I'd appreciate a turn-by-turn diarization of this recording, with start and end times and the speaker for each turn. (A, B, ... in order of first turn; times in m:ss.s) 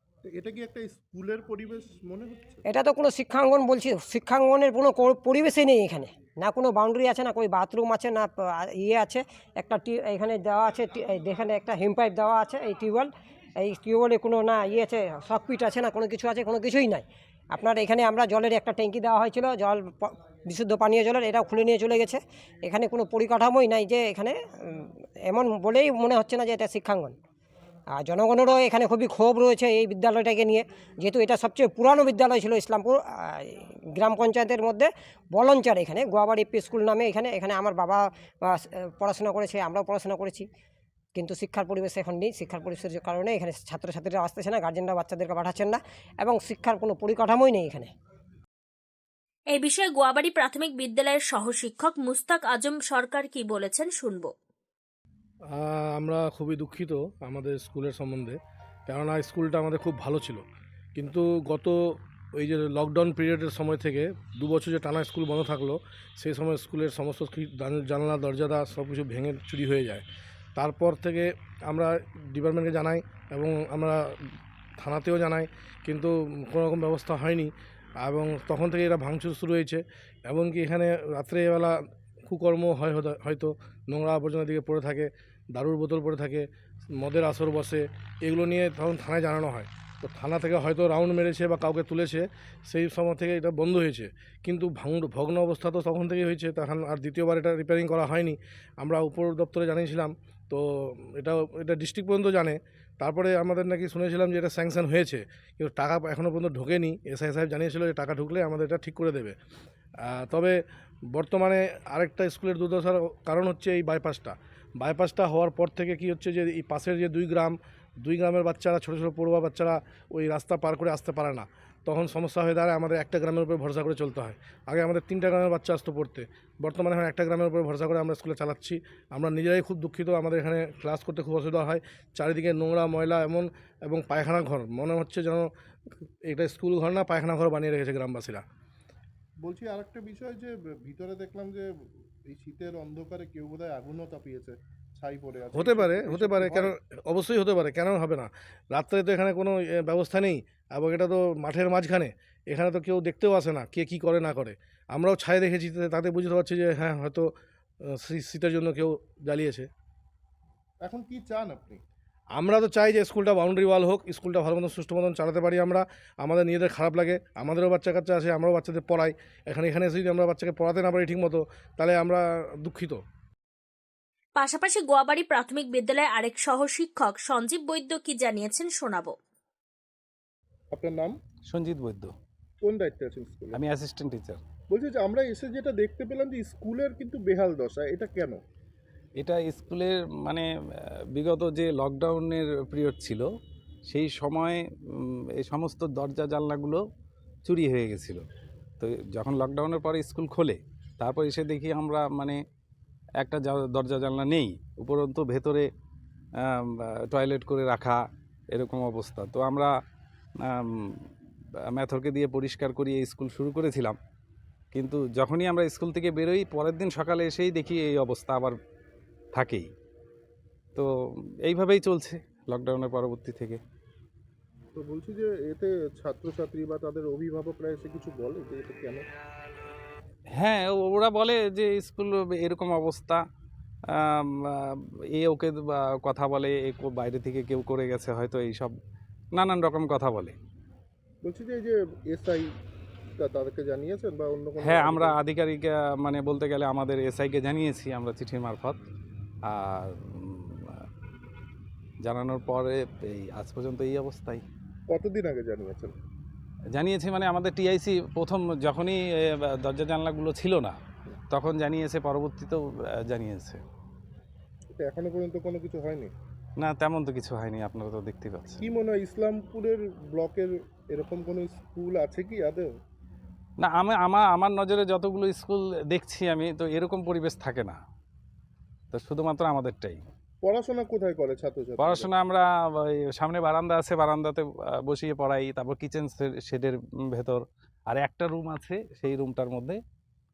0:00.3-0:02.6 A
0:02.6-0:27.1 B
0:27.9-0:40.4 B
0:41.1-0:47.9 B
0:49.5-0:54.3 C
0:55.6-0:58.4 D
0:58.9-1:00.4 D
1:01.0-1:14.0 D
1:14.8-1:17.5 D
1:18.0-1:21.7 D
1:22.2-1:26.5 D
1:27.0-1:49.4 D
1:50.0-1:50.6 D
1:51.1-2:15.5 D
2:16.2-2:18.4 D
2:19.4-2:21.7 A
2:22.3-2:26.7 A
2:25.5-2:37.3 D
2:38.0-2:39.7 D
2:40.8-2:41.8 A
2:42.4-2:53.0 D
2:54.4-2:59.1 C
3:00.7-3:01.2 A
3:01.5-3:02.1 E
3:02.6-3:03.6 A
3:03.5-3:04.4 E
3:04.7-3:08.4 A
3:09.2-3:10.4 E
3:11.1-3:13.3 E
3:13.9-3:14.6 E
3:15.4-3:16.8 E
3:17.4-3:18.2 E
3:18.8-3:22.4 E
3:23.2-3:25.6 E
3:26.4-3:28.0 E
3:28.5-3:29.7 E
3:30.4-3:30.9 E
3:31.7-3:34.0 E
3:34.7-3:38.6 E
3:39.3-3:39.7 E
3:41.4-3:43.6 E
3:44.7-3:49.0 A
3:50.4-3:53.2 E
3:53.9-3:54.6 E
3:55.1-3:58.7 E
3:59.3-4:00.4 E
4:01.2-4:02.5 A
4:03.2-4:05.2 A
4:04.6-4:08.8 E
4:09.5-4:10.8 E
4:12.0-4:14.4 E
4:14.9-4:15.9 A
4:16.7-4:20.8 E
4:21.3-4:23.6 E
4:24.8-4:26.1 A
4:26.6-4:28.6 E
4:28.6-4:32.8 A
4:33.6-4:37.8 E
4:38.9-4:40.0 E
4:40.4-4:42.1 A
4:41.8-4:49.8 E